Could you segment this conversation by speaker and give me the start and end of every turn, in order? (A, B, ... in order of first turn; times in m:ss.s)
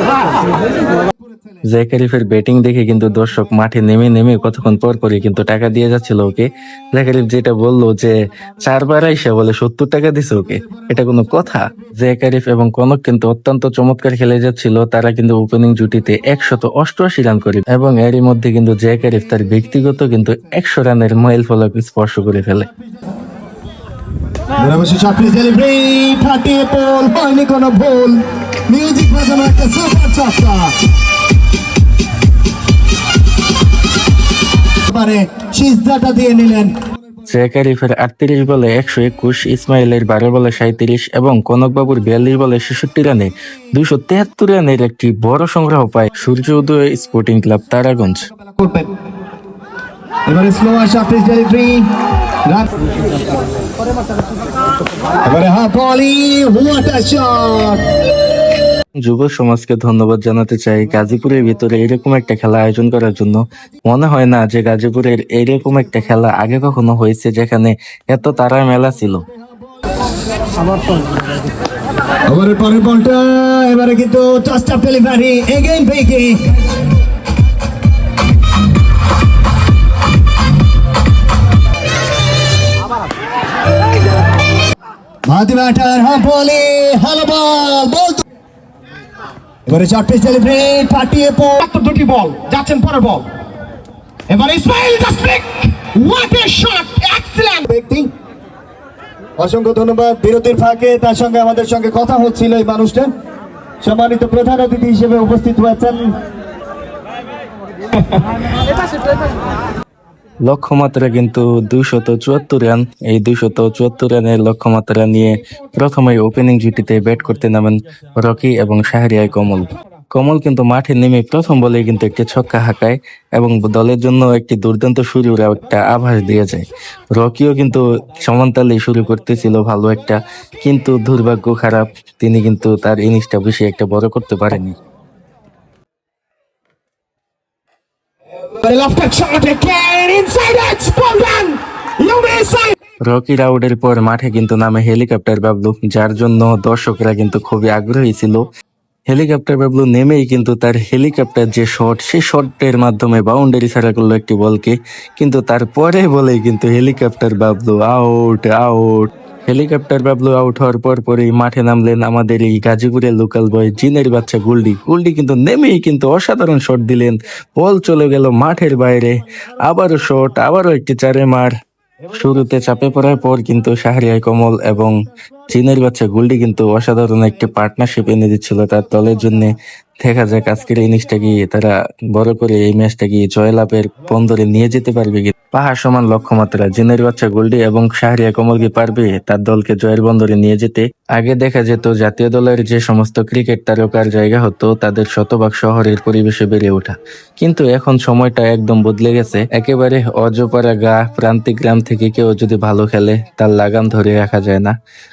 0:01.7-0:22.7 A
0:24.6-0:30.8 B
0:34.9-0:36.7 B
0:37.3-0:48.3 A
0:48.6-0:48.9 B
0:50.3-0:51.9 B
0:52.5-0:52.7 B
0:55.2-0:57.8 B
0:59.0-1:09.2 A
1:12.3-1:16.4 B
1:25.3-1:28.2 B
1:29.7-1:33.3 B
1:34.3-1:38.1 B
1:39.4-1:43.1 B
1:43.8-1:46.2 B
1:50.4-2:14.8 A
2:18.6-2:22.7 B
2:23.0-2:28.4 A
2:29.1-2:51.5 A
2:52.1-2:54.9 A
2:55.5-3:24.7 A